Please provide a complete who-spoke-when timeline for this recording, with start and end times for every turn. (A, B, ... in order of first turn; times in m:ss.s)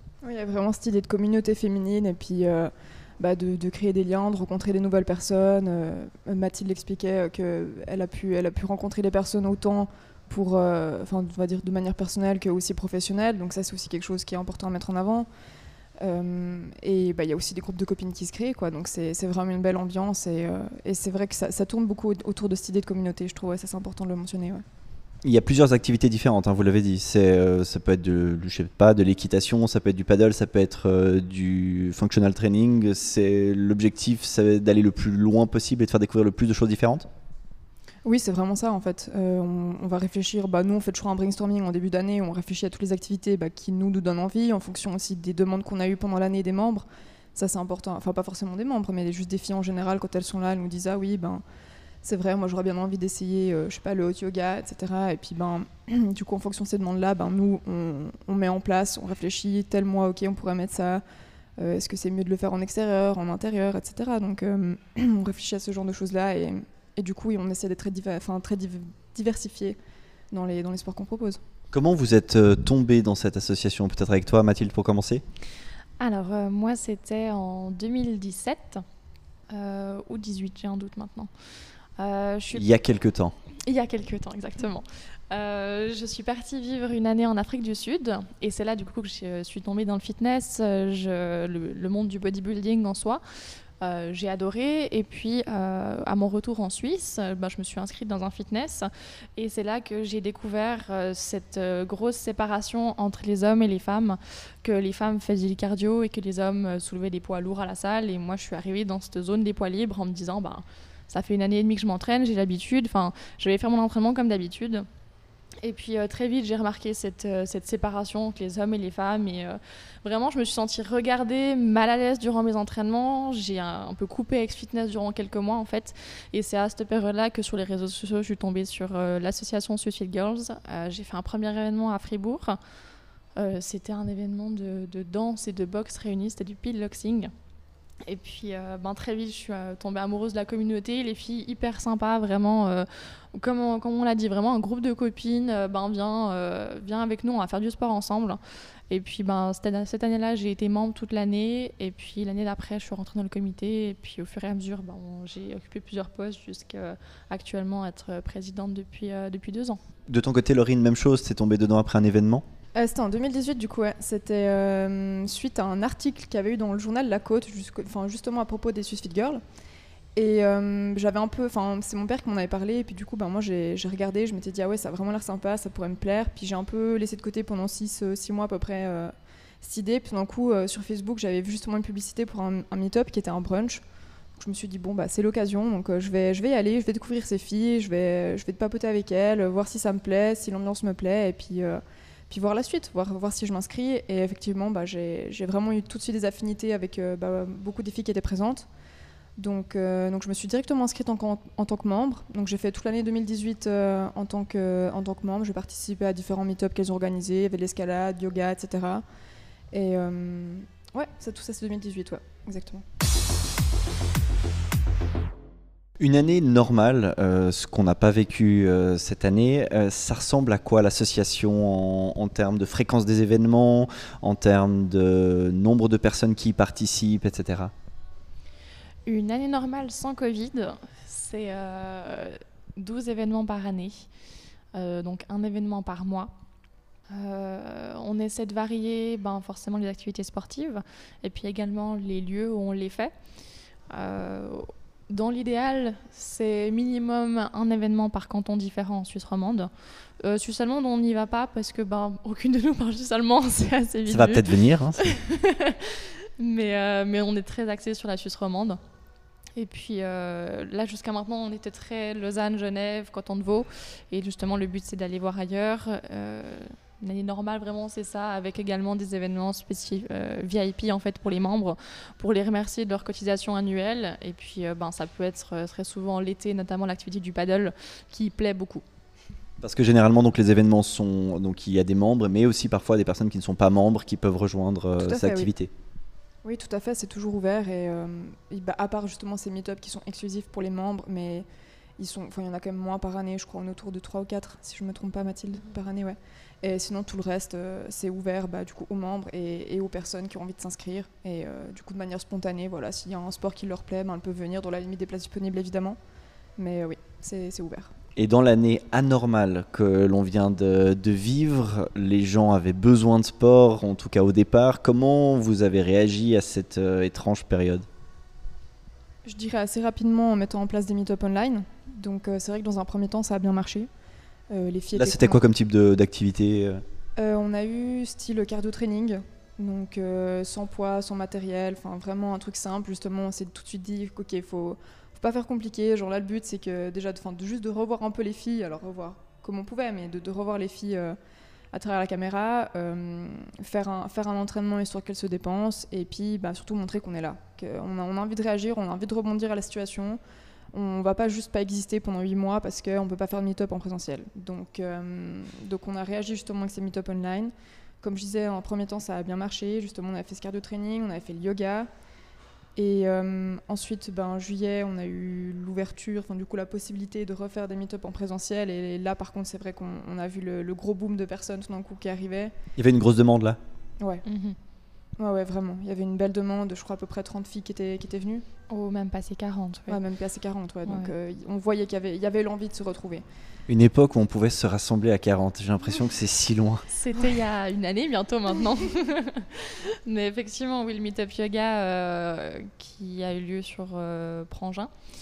0:00.2-0:15.3 A
0:16.0-0:24.6 A
0:25.2-0:37.1 B
0:38.0-0:51.4 A
0:52.0-1:01.0 A
1:01.6-1:09.8 A
1:10.3-1:11.4 A
1:11.7-1:15.2 B
1:16.0-1:18.8 C
1:19.5-1:21.3 C
1:22.0-1:22.7 C
1:22.5-1:23.3 B
1:23.7-1:33.2 C
1:33.8-1:54.9 C
1:55.6-2:12.6 C
2:13.4-2:17.3 C
2:18.0-2:39.8 C
2:40.1-2:42.4 B
2:42.8-2:49.4 A
2:50.1-3:03.8 A
3:04.4-3:18.7 A
3:19.4-3:29.0 A
3:29.7-3:32.8 A
3:36.0-3:47.7 B
3:49.0-3:54.1 C
3:54.7-3:56.3 C
3:57.1-4:03.1 C
4:03.9-4:09.7 C
4:10.2-4:18.8 C
4:14.1-4:15.0 B
4:19.6-4:38.8 C
4:39.6-4:45.7 B
4:45.0-4:45.5 A
4:46.4-4:51.4 A
4:52.0-5:06.0 A
5:06.6-5:07.9 A
5:08.2-5:17.8 B
5:19.2-5:23.9 A
5:24.5-5:25.4 A
5:24.9-5:26.8 B
5:27.2-5:41.2 A
5:41.7-5:50.2 A
5:50.7-6:01.9 A
6:02.8-6:12.5 A
6:12.8-6:13.6 B
6:14.2-6:14.6 C
6:15.2-6:18.4 A
6:18.7-6:20.0 C
6:19.9-6:23.2 A
6:20.8-6:21.1 C
6:23.7-6:26.8 B
6:26.9-6:34.9 C